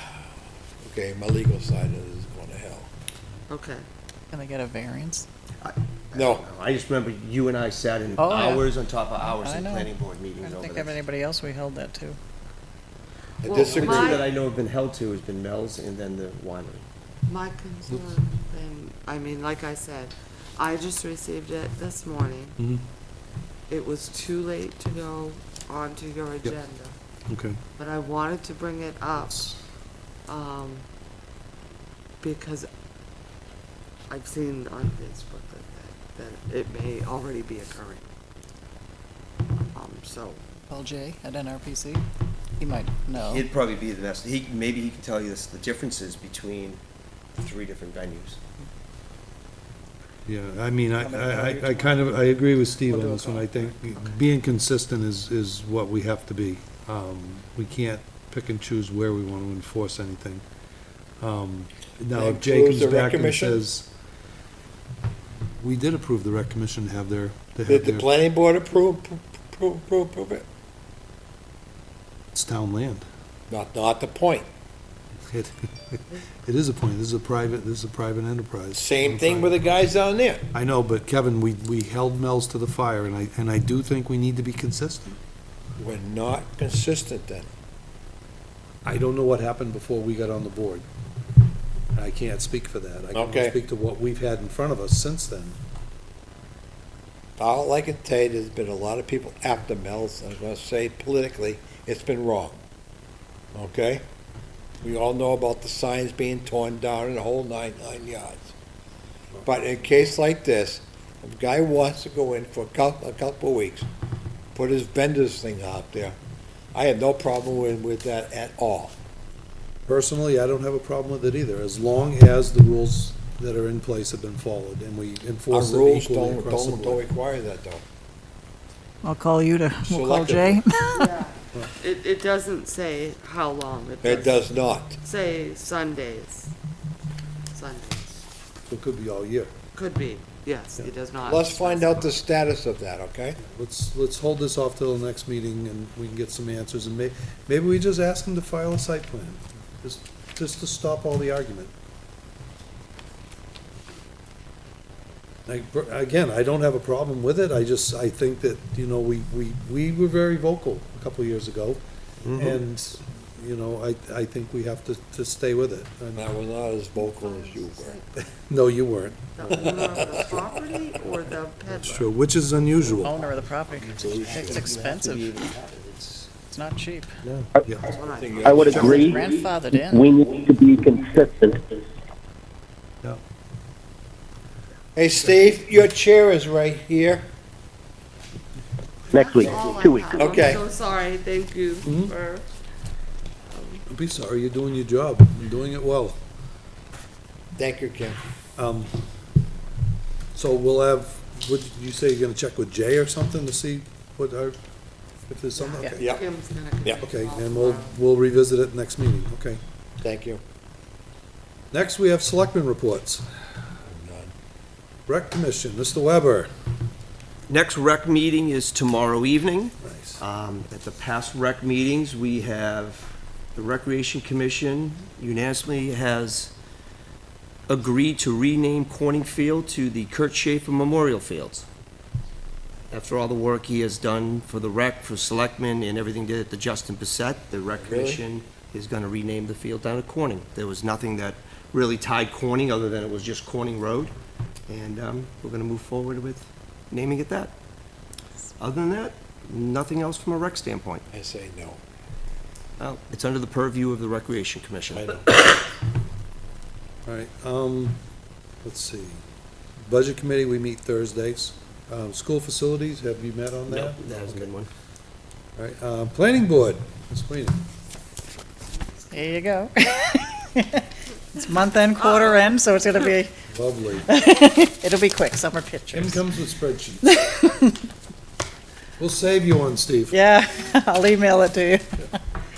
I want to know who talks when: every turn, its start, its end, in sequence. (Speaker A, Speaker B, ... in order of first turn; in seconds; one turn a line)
Speaker A: 0.8-2.9
Speaker B: 3.5-3.8
Speaker C: 4.3-5.3
Speaker D: 5.6-11.0
Speaker A: 6.1-6.5
Speaker C: 8.2-12.2
Speaker A: 13.4-14.2
Speaker B: 13.4-14.2
Speaker D: 13.6-16.9
Speaker B: 17.3-22.6
Speaker E: 22.6-22.8
Speaker B: 23.7-26.9
Speaker E: 27.3-27.6
Speaker B: 27.8-29.5
Speaker E: 29.2-29.6
Speaker B: 30.3-30.9
Speaker B: 32.2-32.7
Speaker B: 34.1-38.0
Speaker B: 39.7-40.4
Speaker C: 40.7-42.0
Speaker C: 42.6-43.5
Speaker D: 43.1-46.8
Speaker D: 47.4-48.4
Speaker E: 50.3-60.4
Speaker C: 51.0-52.3
Speaker C: 52.9-54.0
Speaker E: 61.2-63.9
Speaker A: 62.1-63.7
Speaker E: 65.5-68.1
Speaker A: 67.7-70.5
Speaker E: 72.3-73.1
Speaker A: 73.5-74.5
Speaker E: 75.2-79.6
Speaker A: 78.8-80.5
Speaker E: 80.5-85.2
Speaker A: 85.8-87.5
Speaker E: 88.8-90.8
Speaker E: 92.0-95.6
Speaker A: 93.1-93.6
Speaker A: 97.4-102.6
Speaker A: 103.5-104.0
Speaker A: 104.8-108.5
Speaker A: 109.4-113.9
Speaker A: 114.5-116.2
Speaker A: 116.7-119.0
Speaker E: 119.9-127.0
Speaker A: 125.5-127.8
Speaker C: 129.0-131.1
Speaker A: 129.8-130.6
Speaker B: 130.9-134.4
Speaker A: 134.0-135.0
Speaker B: 135.0-136.5
Speaker B: 137.5-138.2
Speaker E: 138.7-139.5
Speaker B: 139.7-142.2
Speaker A: 141.2-143.4
Speaker E: 143.4-151.7
Speaker E: 155.4-161.8
Speaker D: 162.2-162.6
Speaker E: 162.3-166.3
Speaker A: 166.1-168.0
Speaker B: 167.0-168.2
Speaker E: 168.5-169.8
Speaker B: 169.3-172.1
Speaker A: 169.5-170.2
Speaker E: 171.9-173.2
Speaker C: 173.0-175.3
Speaker D: 173.8-176.3
Speaker A: 173.8-174.7
Speaker C: 176.5-177.1
Speaker D: 177.2-177.5
Speaker E: 177.6-177.9
Speaker B: 177.8-179.2
Speaker A: 178.0-179.1
Speaker F: 178.4-181.7
Speaker E: 178.6-179.0
Speaker C: 178.7-180.1
Speaker A: 184.9-187.3
Speaker F: 189.1-190.4
Speaker B: 189.1-192.5
Speaker A: 190.1-190.6
Speaker E: 191.8-192.1
Speaker B: 193.5-193.8
Speaker E: 193.9-196.2
Speaker A: 197.6-198.2
Speaker E: 198.6-199.0
Speaker E: 200.3-204.6
Speaker E: 205.2-206.0
Speaker B: 205.6-208.0
Speaker A: 206.0-206.2
Speaker E: 207.0-209.6
Speaker A: 210.0-210.4
Speaker E: 211.7-213.2
Speaker A: 213.8-214.3
Speaker E: 215.1-216.5
Speaker D: 217.5-226.5
Speaker E: 219.8-220.2
Speaker D: 227.7-231.7
Speaker D: 232.9-244.1
Speaker A: 237.8-238.2
Speaker D: 244.7-247.5
Speaker D: 248.6-251.0
Speaker A: 251.1-251.8
Speaker D: 252.8-255.2
Speaker E: 254.9-255.2
Speaker E: 257.1-258.0
Speaker E: 258.6-259.2
Speaker E: 259.8-264.5
Speaker D: 263.7-264.7
Speaker E: 265.6-267.6
Speaker C: 269.1-273.3
Speaker E: 273.5-274.1
Speaker C: 274.0-276.2
Speaker E: 275.9-277.1
Speaker C: 277.0-277.8
Speaker E: 279.0-280.2
Speaker C: 280.1-282.1